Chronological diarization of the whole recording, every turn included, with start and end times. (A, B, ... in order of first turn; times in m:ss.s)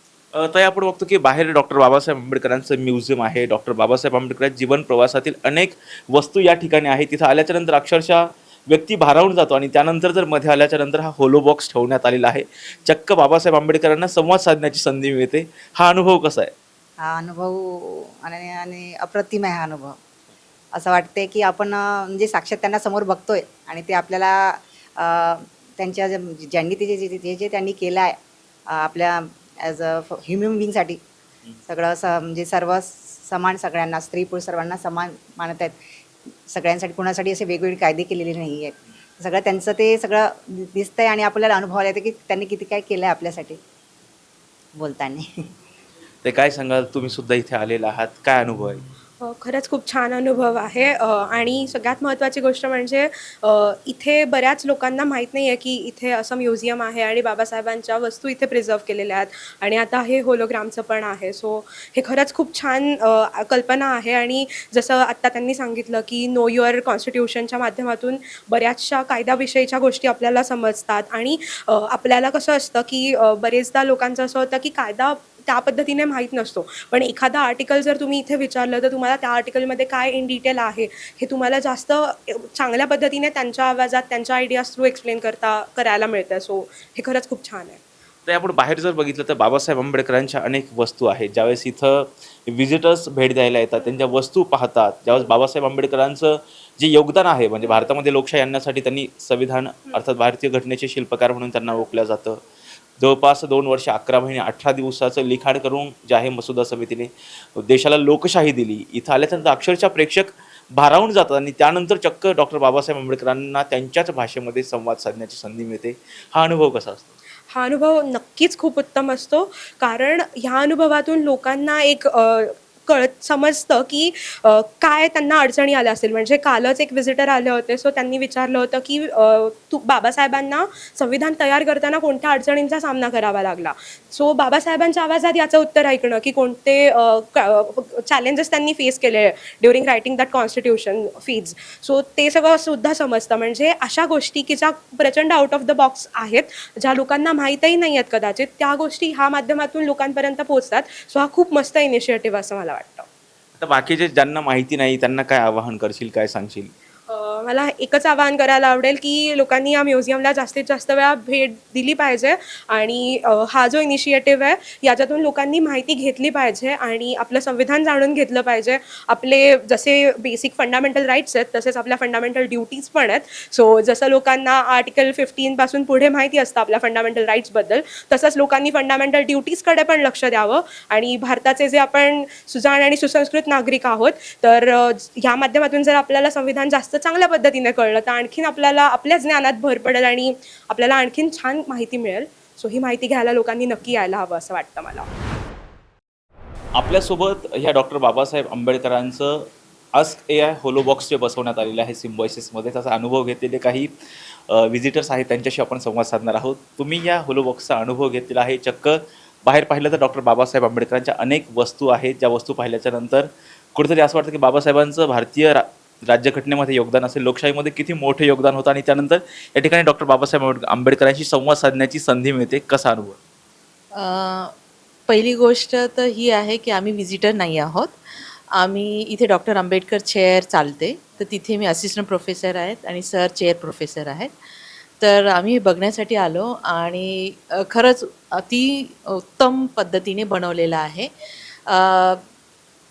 0:00.3-0:16.5 A
0:17.0-0:20.0 B
0:20.8-0:28.2 B
0:28.7-0:31.0 B
0:31.6-0:35.8 B
0:36.5-0:43.6 B
0:44.8-0:45.3 B
0:46.2-0:48.8 A
0:49.2-1:27.8 C
1:28.2-1:42.4 A
1:43.0-1:57.1 A
1:57.5-2:33.1 C
2:33.6-2:36.7 A
2:37.1-3:15.1 C
3:16.7-3:23.9 A
3:24.5-3:43.2 A
3:43.9-3:44.5 D
3:45.1-3:48.0 D
3:48.5-3:54.3 D
3:55.0-4:01.1 D
4:01.7-4:02.2 D